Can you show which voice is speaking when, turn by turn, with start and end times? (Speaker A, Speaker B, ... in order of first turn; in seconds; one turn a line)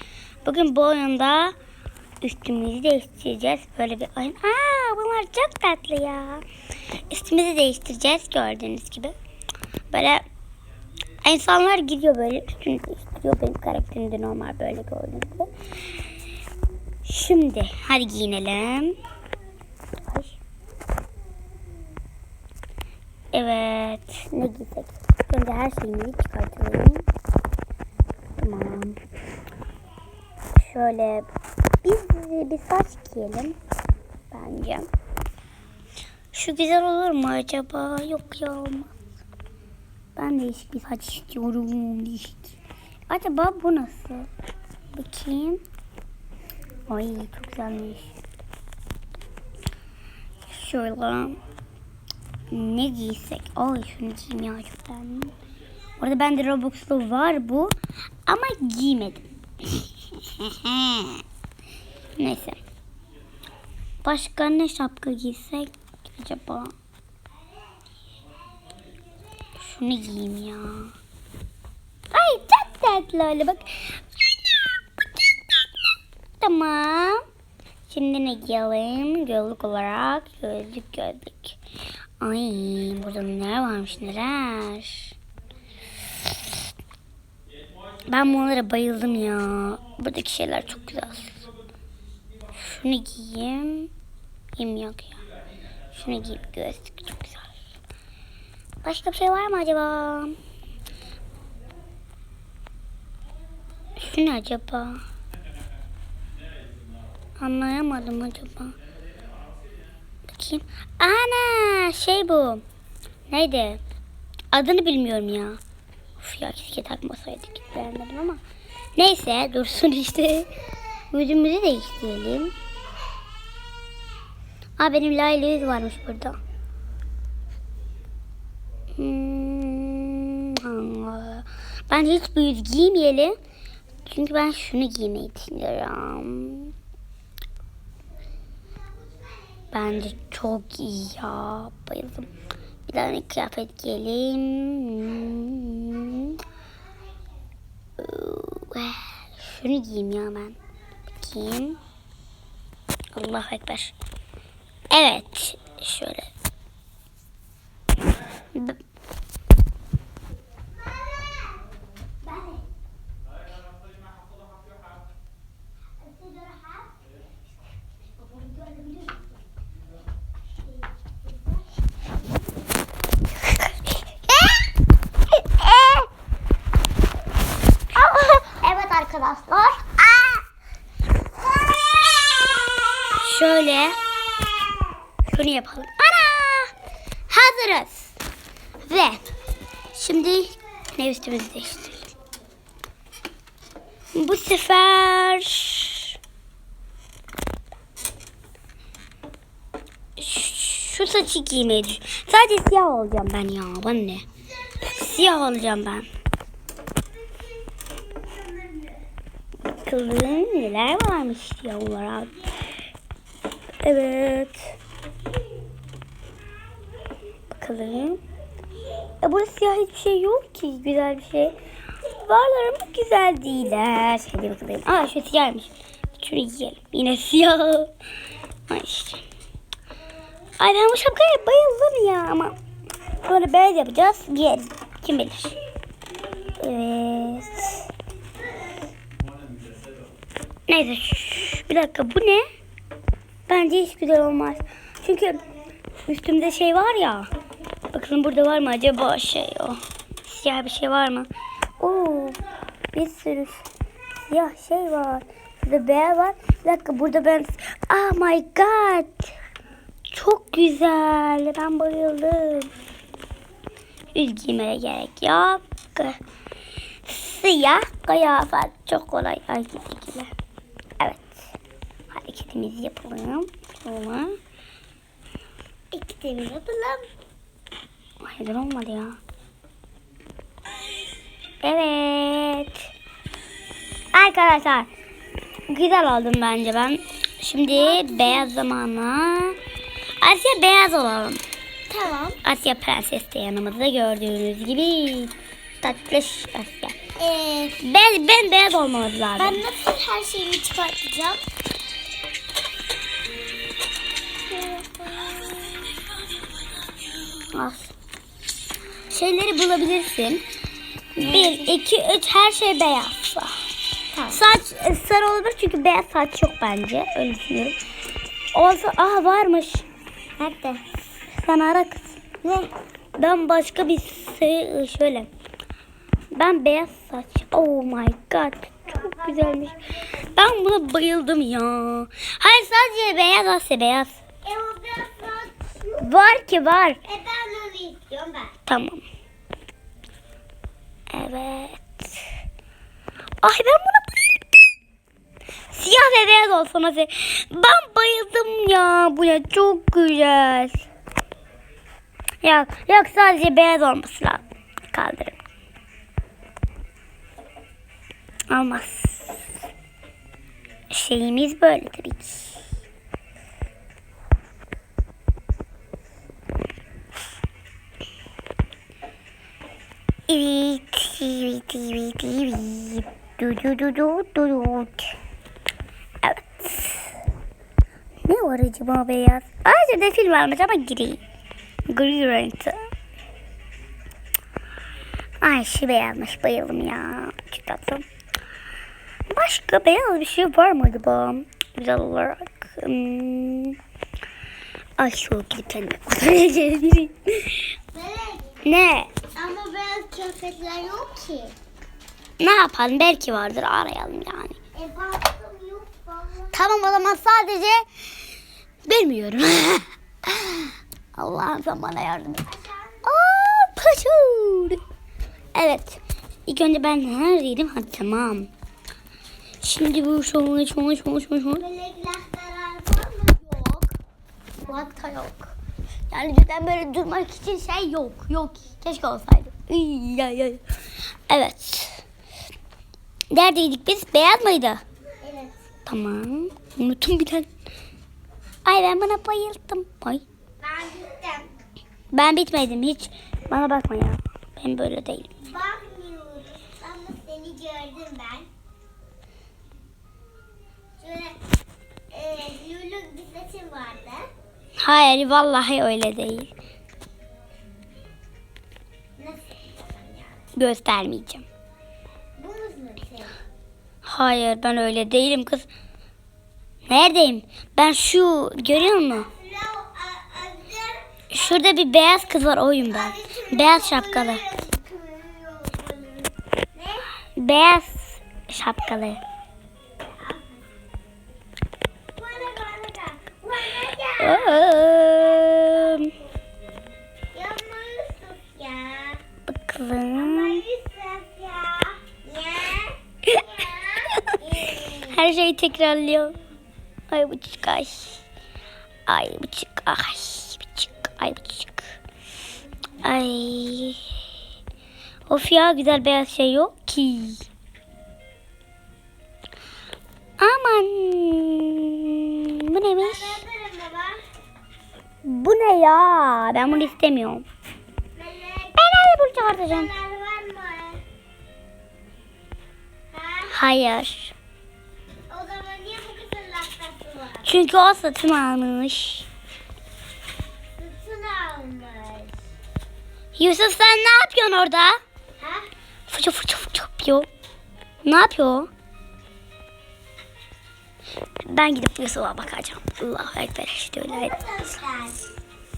Speaker A: 0.5-1.5
Speaker A: 2.2-6.4
Speaker A: 7.1-9.2
Speaker A: 9.9-10.3
Speaker A: 11.2-15.5
Speaker A: 17.1-19.0
Speaker A: 20.1-20.4
Speaker A: 23.3-27.0
Speaker A: 28.4-29.0
Speaker A: 30.6-31.3
Speaker A: 31.8-33.6
Speaker A: 34.3-34.9
Speaker A: 36.3-39.0
Speaker A: 40.2-42.6
Speaker A: 43.1-44.3
Speaker A: 44.9-45.6
Speaker A: 46.9-48.1
Speaker A: 50.5-51.4
Speaker A: 52.5-55.3
Speaker A: 56.0-57.8
Speaker A: 58.3-61.2
Speaker A: 62.2-62.6
Speaker A: 64.0-66.7
Speaker A: 69.6-70.9
Speaker A: 72.1-74.8
Speaker A: 76.4-77.2
Speaker A: 77.9-81.6
Speaker A: 82.2-85.2
Speaker A: 88.1-91.4
Speaker A: 92.5-93.9
Speaker A: 94.6-95.2
Speaker A: 95.9-97.5
Speaker A: 98.8-100.4
Speaker A: 104.0-105.0
Speaker A: 107.4-108.8
Speaker A: 110.3-112.6
Speaker A: 113.3-113.8
Speaker A: 114.5-115.6
Speaker A: 116.2-118.4
Speaker A: 119.0-120.6
Speaker A: 121.1-122.5
Speaker A: 124.8-126.4
Speaker A: 129.0-133.4
Speaker A: 134.1-136.7
Speaker B: 139.2-139.6
Speaker A: 139.7-142.3
Speaker A: 142.9-146.4
Speaker A: 148.0-150.6
Speaker A: 151.2-151.8
Speaker A: 153.2-153.9
Speaker A: 154.9-156.3
Speaker B: 160.7-161.7
Speaker B: 162.3-162.6
Speaker B: 166.0-166.9
Speaker B: 168.4-169.2
Speaker A: 175.3-176.1
Speaker A: 177.9-180.3
Speaker A: 183.2-184.0
Speaker A: 185.3-186.7
Speaker A: 187.3-188.1
Speaker A: 188.8-189.3
Speaker A: 189.9-192.1
Speaker A: 194.2-196.2
Speaker A: 200.2-204.2
Speaker B: 204.8-205.1
Speaker A: 204.8-206.1
Speaker B: 207.0-209.0
Speaker A: 209.8-212.3
Speaker A: 213.8-214.7
Speaker A: 217.5-218.2
Speaker A: 219.2-227.9
Speaker A: 228.7-229.2
Speaker A: 230.6-232.6
Speaker A: 233.2-235.6
Speaker A: 236.6-237.9
Speaker A: 240.7-242.4
Speaker A: 243.5-245.4
Speaker A: 246.1-247.3
Speaker A: 247.9-252.4
Speaker A: 252.9-253.7
Speaker A: 254.3-259.3
Speaker A: 260.1-262.7
Speaker A: 264.1-266.2
Speaker A: 267.1-270.3
Speaker A: 271.0-271.4
Speaker A: 272.1-274.4
Speaker B: 275.9-277.1
Speaker A: 278.2-279.2
Speaker A: 281.6-282.9
Speaker A: 284.1-284.9
Speaker A: 285.7-289.6
Speaker B: 287.7-288.5
Speaker A: 290.2-291.4
Speaker B: 291.9-292.4
Speaker A: 292.4-296.9
Speaker B: 297.2-297.8
Speaker A: 297.8-299.6
Speaker B: 299.4-301.4
Speaker B: 304.5-305.7
Speaker A: 307.5-307.9
Speaker A: 309.1-310.4
Speaker A: 311.2-313.6
Speaker B: 311.2-311.8
Speaker B: 314.1-314.4
Speaker A: 314.3-317.8
Speaker A: 318.5-319.9
Speaker B: 320.4-320.8
Speaker A: 321.4-322.2
Speaker B: 322.4-322.7
Speaker A: 323.2-325.3
Speaker A: 326.3-334.2
Speaker B: 328.9-330.3
Speaker B: 334.4-336.1
Speaker A: 336.0-337.0
Speaker B: 337.0-338.5
Speaker A: 338.7-339.0
Speaker A: 341.1-342.2
Speaker A: 343.4-344.4
Speaker A: 345.7-350.9
Speaker A: 352.4-355.4
Speaker A: 358.5-359.5
Speaker A: 360.9-362.6
Speaker A: 370.3-375.1
Speaker A: 376.2-377.1
Speaker A: 378.3-381.2
Speaker A: 381.9-382.9
Speaker A: 385.4-388.0
Speaker A: 389.3-393.8
Speaker A: 395.0-397.7
Speaker B: 397.9-398.6
Speaker A: 398.6-399.1
Speaker B: 399.3-401.5
Speaker A: 402.4-404.6
Speaker B: 404.7-406.7
Speaker A: 406.5-407.9
Speaker A: 408.9-412.4
Speaker B: 412.5-413.1
Speaker A: 413.1-414.8
Speaker A: 415.6-418.5
Speaker A: 419.6-421.6
Speaker B: 421.6-423.9
Speaker A: 424.6-425.5
Speaker A: 426.1-430.6
Speaker A: 431.3-432.0
Speaker A: 433.3-434.8
Speaker B: 435.2-435.5
Speaker A: 435.9-437.5
Speaker A: 438.6-440.2
Speaker B: 440.6-441.5
Speaker A: 442.1-445.3
Speaker B: 445.4-448.5
Speaker B: 451.0-451.4
Speaker B: 452.1-454.3
Speaker A: 454.8-456.5
Speaker B: 459.2-460.4
Speaker A: 460.6-461.4
Speaker B: 462.4-463.4
Speaker A: 464.1-465.7
Speaker A: 466.9-469.3
Speaker B: 468.8-471.5
Speaker A: 471.3-474.4
Speaker B: 472.9-477.1
Speaker A: 477.4-479.2
Speaker B: 480.0-480.6
Speaker B: 482.1-485.8
Speaker A: 484.2-486.1
Speaker B: 487.3-489.2
Speaker A: 489.5-490.6
Speaker B: 490.1-495.2
Speaker A: 494.9-496.4
Speaker A: 497.1-498.2
Speaker A: 499.1-501.9
Speaker A: 503.0-504.0
Speaker A: 505.3-507.5
Speaker A: 510.4-513.4
Speaker B: 513.0-514.2
Speaker A: 515.2-517.5
Speaker B: 518.1-521.0
Speaker A: 518.8-519.9
Speaker B: 523.1-523.6
Speaker A: 523.5-524.4
Speaker B: 525.3-527.5
Speaker A: 527.4-529.3
Speaker B: 530.8-532.4
Speaker A: 533.4-535.0
Speaker B: 535.4-535.7
Speaker A: 536.1-537.3
Speaker A: 538.0-538.7
Speaker A: 541.5-544.4
Speaker B: 544.0-545.3